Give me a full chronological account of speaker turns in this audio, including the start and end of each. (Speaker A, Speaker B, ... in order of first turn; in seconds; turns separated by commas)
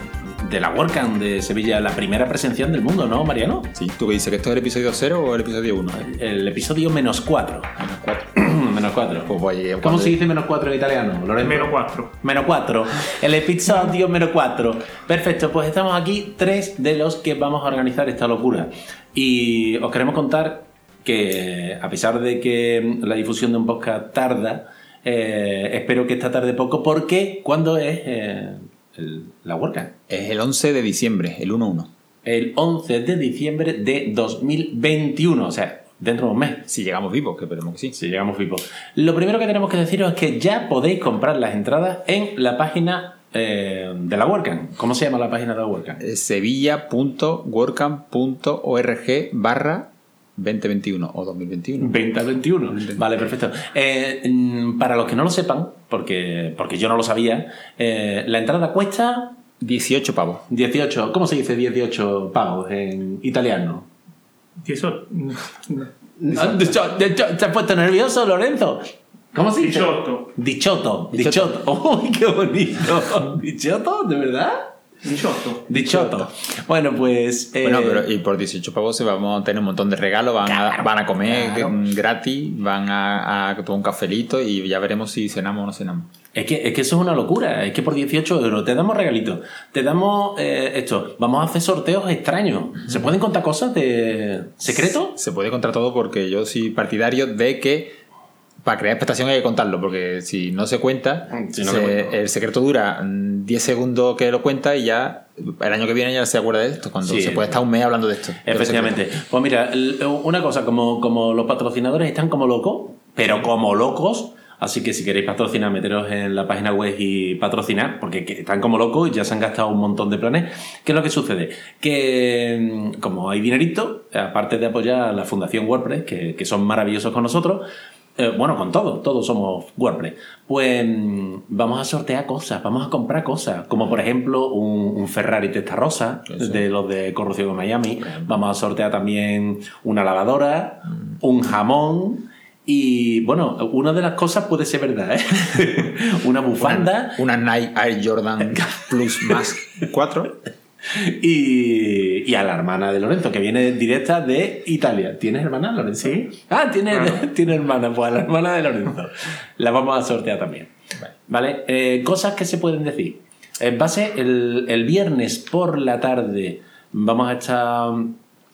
Speaker A: 0.4-3.7, Speaker B: 3.7-6.0, Speaker A: 5.9-7.8, Speaker B: 7.8-8.3, Speaker A: 8.3-29.9, Speaker B: 9.3-10.2, Speaker C: 11.4-12.1, Speaker B: 30.1-31.9, Speaker A: 32.2-36.7, Speaker B: 36.7-38.0, Speaker A: 37.9-46.0, Speaker B: 46.0-52.0, Speaker A: 51.8-59.4, Speaker B: 52.7-53.0, Speaker B: 59.6-60.4, Speaker A: 60.5-63.9, Speaker C: 64.6-65.9, Speaker A: 66.2-74.7, Speaker C: 69.6-70.2, Speaker B: 71.1-71.5, Speaker C: 75.0-76.0, Speaker A: 75.6-78.1, Speaker B: 77.6-86.1, Speaker A: 80.5-81.8, Speaker A: 86.3-95.2, Speaker B: 95.0-98.0, Speaker B: 98.6-109.0, Speaker A: 101.3-102.2, Speaker A: 107.0-107.6, Speaker A: 108.4-127.6, Speaker A: 128.2-147.2, Speaker B: 136.3-136.6, Speaker B: 146.6-150.3, Speaker A: 148.5-149.5, Speaker A: 150.8-160.7, Speaker C: 156.9-157.2, Speaker A: 161.2-168.2